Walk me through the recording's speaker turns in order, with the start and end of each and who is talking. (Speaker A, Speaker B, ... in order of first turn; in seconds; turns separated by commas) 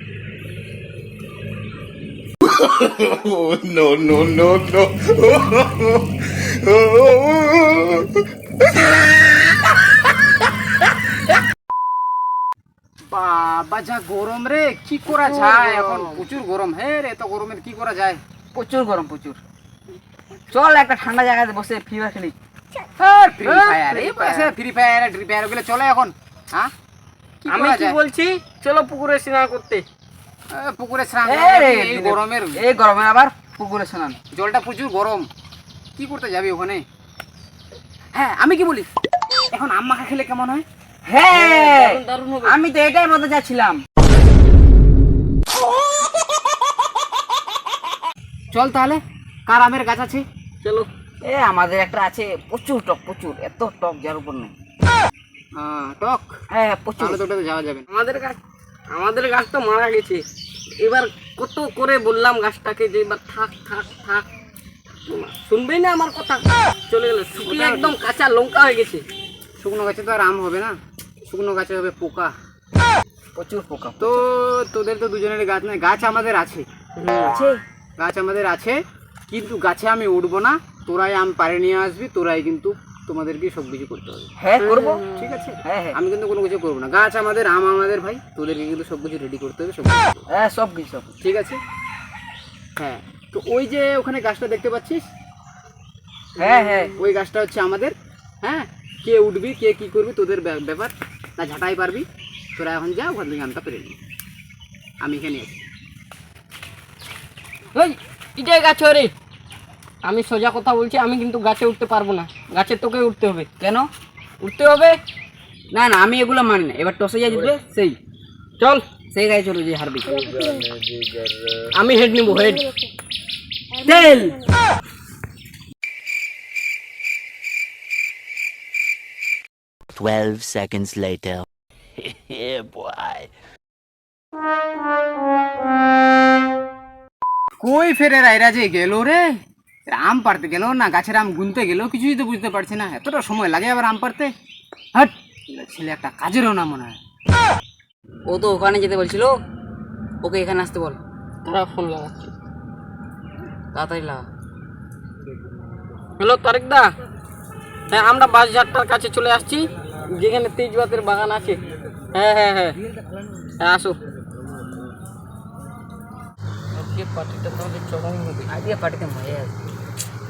Speaker A: 2.4-8.3, Speaker A: 8.9-9.2, Speaker B: 13.1-18.2, Speaker C: 15.1-16.2, Speaker D: 18.5-19.4, Speaker D: 20.5-22.4, Speaker B: 23.0-26.7, Speaker C: 23.4-24.5, Speaker C: 27.4-29.8, Speaker B: 27.5-28.0, Speaker B: 30.5-32.6, Speaker D: 31.2-34.2, Speaker B: 34.3-35.3, Speaker B: 36.0-36.8, Speaker B: 38.1-38.9, Speaker B: 39.5-40.6, Speaker D: 41.0-43.8, Speaker C: 41.3-42.6, Speaker B: 48.5-50.2, Speaker C: 50.6-50.9, Speaker D: 51.2-54.5, Speaker B: 55.5-56.4, Speaker D: 56.5-57.2, Speaker B: 57.0-57.9, Speaker C: 57.9-58.4, Speaker C: 58.9-60.2, Speaker C: 60.8-64.2, Speaker C: 65.1-69.0, Speaker B: 67.4-68.0, Speaker B: 69.6-72.3, Speaker D: 73.3-74.2, Speaker B: 74.0-76.7, Speaker C: 77.0-77.4, Speaker D: 77.2-77.6, Speaker B: 78.0-84.3, Speaker D: 84.4-85.0, Speaker C: 84.6-85.3, Speaker B: 85.2-90.2, Speaker D: 85.6-86.0, Speaker D: 90.3-91.2, Speaker B: 91.2-91.6, Speaker B: 92.8-95.1, Speaker D: 96.4-97.0, Speaker B: 96.9-104.0, Speaker B: 105.0-105.6, Speaker C: 107.8-109.1, Speaker C: 110.0-113.5, Speaker D: 113.6-113.9, Speaker C: 114.4-115.0, Speaker D: 115.7-118.0, Speaker D: 119.1-120.4, Speaker A: 120.2-121.3, Speaker C: 121.7-122.8, Speaker D: 123.9-124.4, Speaker E: 129.9-131.4, Speaker E: 132.0-133.3, Speaker B: 137.6-139.3, Speaker B: 139.9-144.3, Speaker B: 144.9-147.0, Speaker D: 148.3-149.4, Speaker D: 150.2-151.0, Speaker C: 151.4-152.3, Speaker D: 153.7-154.2, Speaker C: 156.2-156.9, Speaker C: 157.9-161.6, Speaker C: 162.1-162.8, Speaker C: 163.6-164.0, Speaker C: 166.8-168.5, Speaker D: 168.5-169.6